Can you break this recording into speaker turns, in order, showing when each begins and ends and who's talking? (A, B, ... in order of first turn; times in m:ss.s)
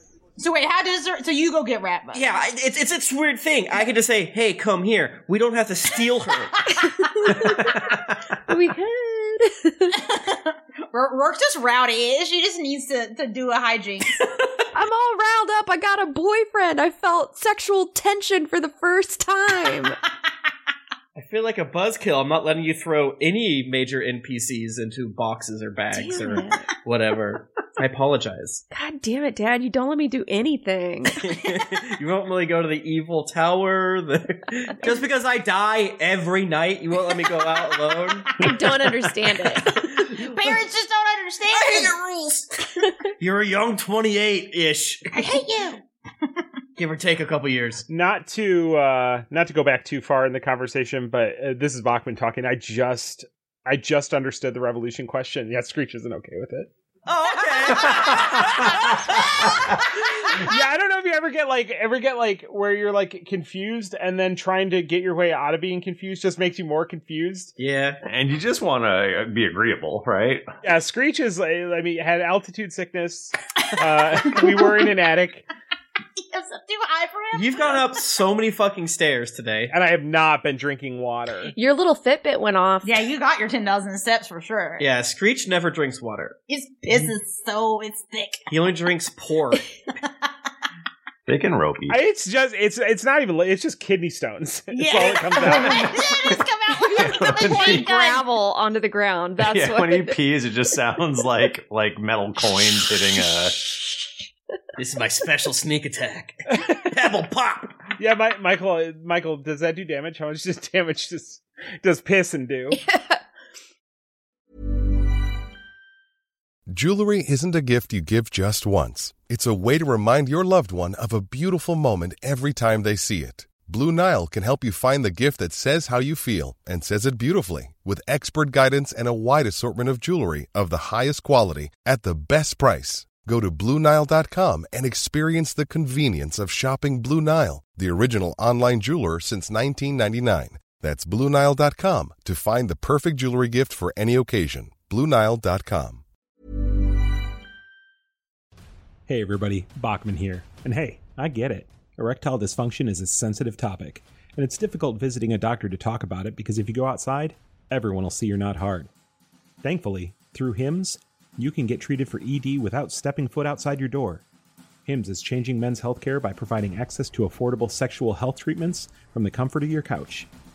0:00.4-0:02.2 A
0:02.1-0:06.6 B
0:06.8-0:07.8 C
0:08.5-0:10.0 C
0:10.0-0:14.2 A
0:14.7-0:20.0 C
0:21.2-0:28.6 B
0:25.9-0:26.7 C
0:28.7-0:31.2 C
0:31.2-0:38.3 B
0:38.4-0:40.1 C
0:39.6-0:40.3 B
0:40.1-0:42.4 A
0:41.5-0:42.4 B
0:43.2-0:45.2 B
0:45.1-0:46.3 A
0:46.8-0:47.9 B
0:47.9-0:56.7 D
0:57.1-0:59.3 B
0:58.0-0:58.4 E
1:00.2-1:07.5 D
1:07.6-1:08.0 B
1:08.0-1:10.5 E
1:10.6-1:15.5 D
1:14.4-1:14.6 A
1:16.2-1:18.0 A
1:17.3-1:19.7 B
1:19.7-1:21.5 D
1:21.5-1:23.0 C
1:22.8-1:24.9 A
1:24.8-1:26.4 B
1:26.5-1:28.4 A
1:28.5-1:29.7 B
1:31.3-1:32.0 E
1:31.9-1:35.8 D
1:34.7-1:38.2 A
1:35.7-1:36.4 E
1:36.9-1:40.2 C
1:36.9-1:37.9 E
1:39.4-1:43.6 E
1:44.8-1:47.8 B
1:46.5-1:46.8 D
1:48.0-1:52.8 D
1:52.7-1:53.2 C
1:56.7-2:26.0 F
2:29.1-2:38.9 G
2:39.6-2:44.2 G
2:44.9-2:50.3 G